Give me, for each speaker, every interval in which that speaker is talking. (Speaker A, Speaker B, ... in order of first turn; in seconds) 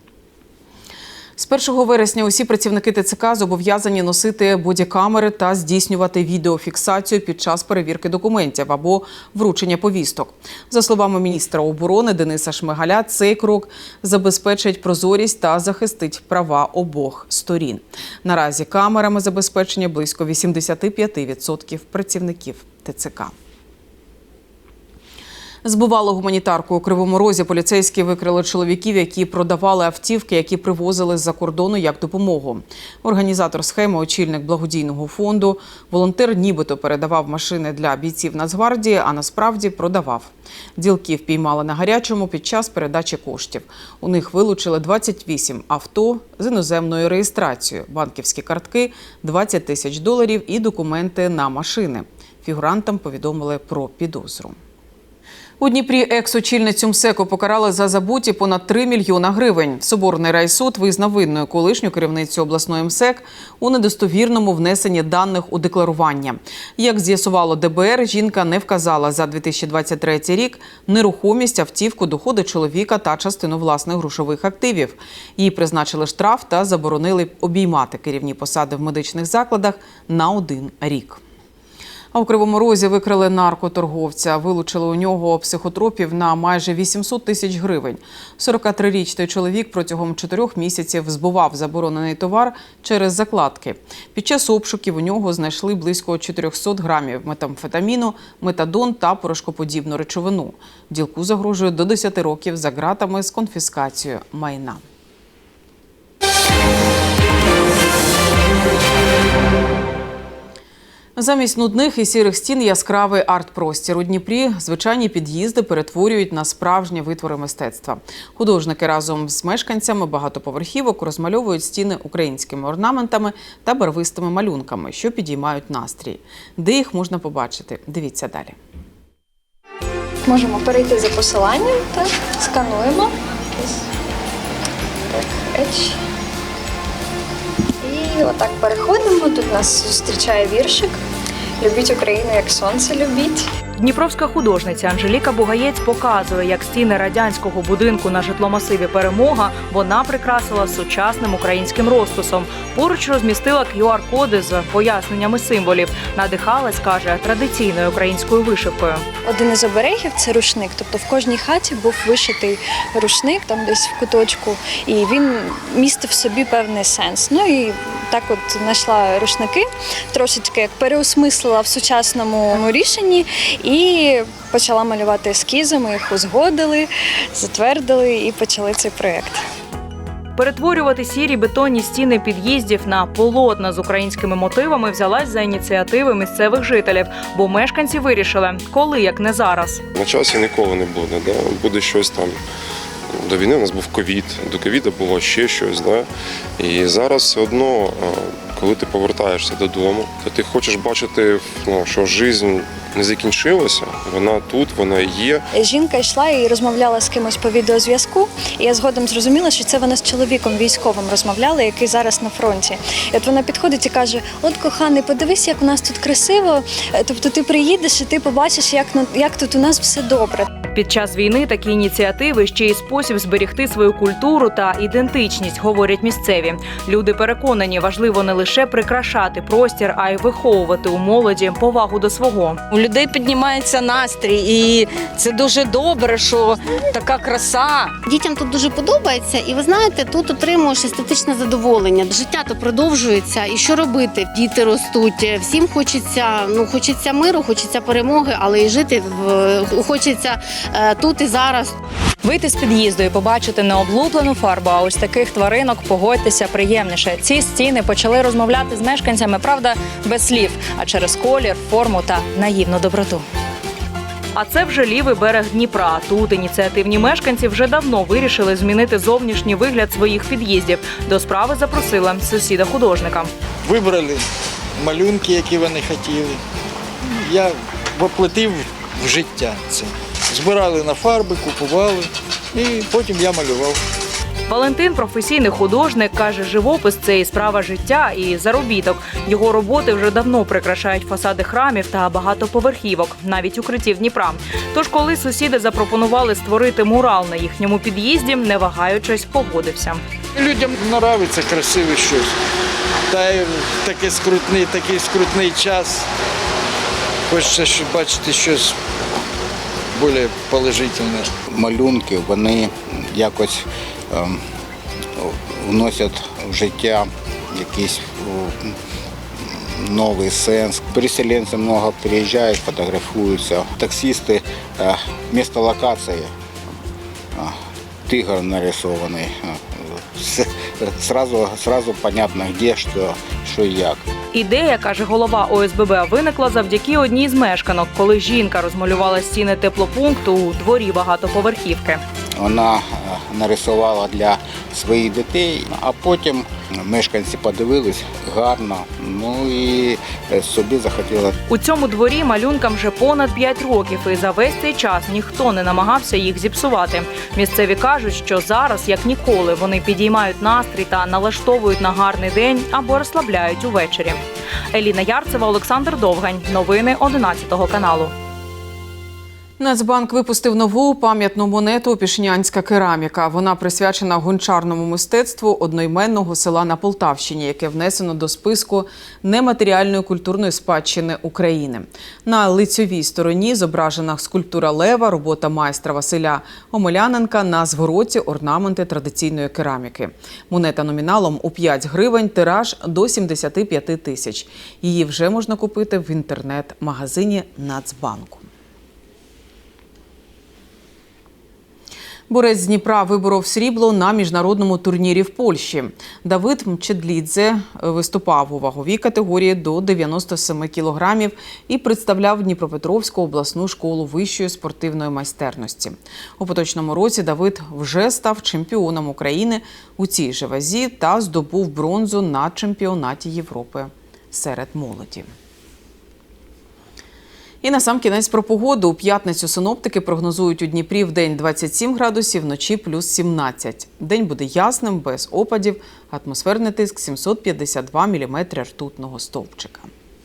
Speaker A: 1.4-23.3, 25.6-54.5, 55.6-81.2, 82.1-104.8, 111.2-128.6, 369.6-398.5, 402.3-425.3, 427.6-439.9
Speaker B: 130.2-133.9, 135.1-136.0, 137.8-141.0, 141.6-143.5, 159.2-179.4, 205.5-220.5
Speaker C: 143.8-159.0, 180.4-189.8, 220.6-232.6, 252.2-263.2, 264.3-273.3, 284.5-300.0, 334.3-342.0, 351.5-364.2, 364.7-368.1
Speaker D: 189.9-192.4, 193.1-196.1, 196.6-205.4
Speaker E: 232.7-237.9
Speaker F: 238.0-251.7
Speaker G: 273.6-274.2, 274.8-276.4, 277.1-283.8, 300.4-302.3, 303.1-306.1, 307.3-308.8, 309.9-311.3
Speaker H: 311.5-314.4, 315.2-318.7, 319.8-326.3, 327.4-334.0, 342.4-351.4